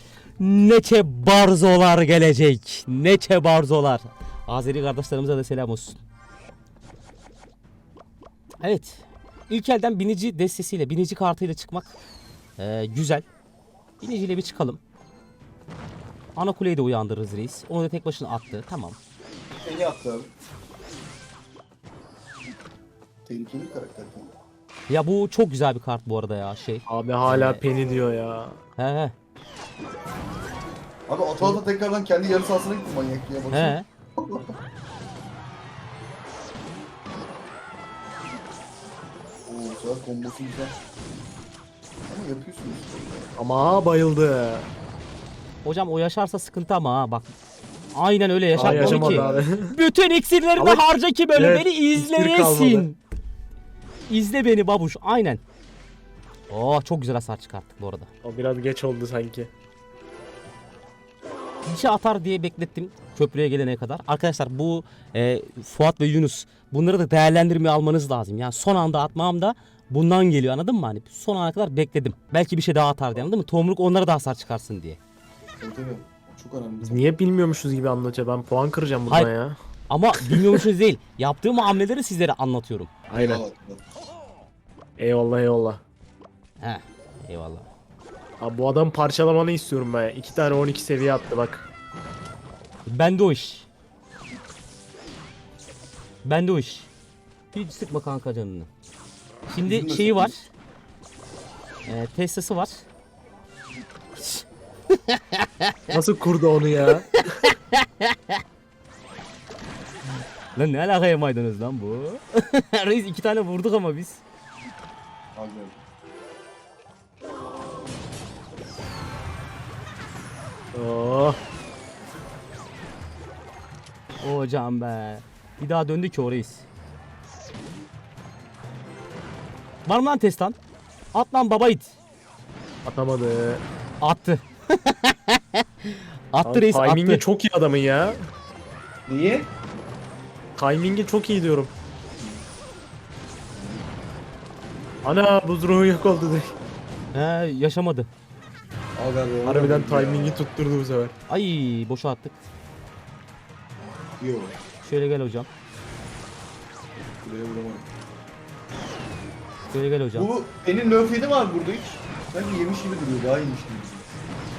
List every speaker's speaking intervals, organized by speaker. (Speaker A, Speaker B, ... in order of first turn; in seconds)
Speaker A: 0.4-6.0, 8.6-11.9, 12.6-13.2, 14.0-14.8, 16.4-19.0, 24.9-27.6, 28.8-29.1, 33.5-33.9, 45.6-47.3, 47.9-53.0, 54.1-55.4, 56.5-58.1, 61.6-75.0, 79.9-82.9, 86.6-87.7, 92.9-93.7, 96.2-96.9, 97.5-98.7, 99.5-100.4, 101.9-102.8, 104.2-105.8, 107.1-108.4, 110.5-114.2, 124.2-126.7, 129.8-130.6, 131.1-131.9, 134.0-137.2, 147.1-148.1, 151.3-152.4, 154.8-155.5, 159.7-160.3
Speaker B: 19.6-20.3, 23.2-24.3, 31.1-34.5, 39.5-40.8, 42.1-43.3, 48.5-49.5, 75.6-77.1, 83.1-83.8, 99.6-100.4, 115.3-115.8, 139.1-139.5, 142.2-142.4, 143.5-143.9, 148.9-150.5, 154.2-154.6, 157.2-157.9, 160.1-164.1
Speaker C: 26.9-28.6, 43.4-44.7, 48.6-49.8, 50.6-50.8, 51.4-52.9, 58.2-59.5, 76.8-79.5, 80.2-80.6, 83.1-83.4, 85.0-85.8, 88.4-91.6, 105.9-107.2, 120.7-121.4, 132.8-133.6, 136.4-138.2, 140.6-141.7, 145.0-146.5, 149.4-151.1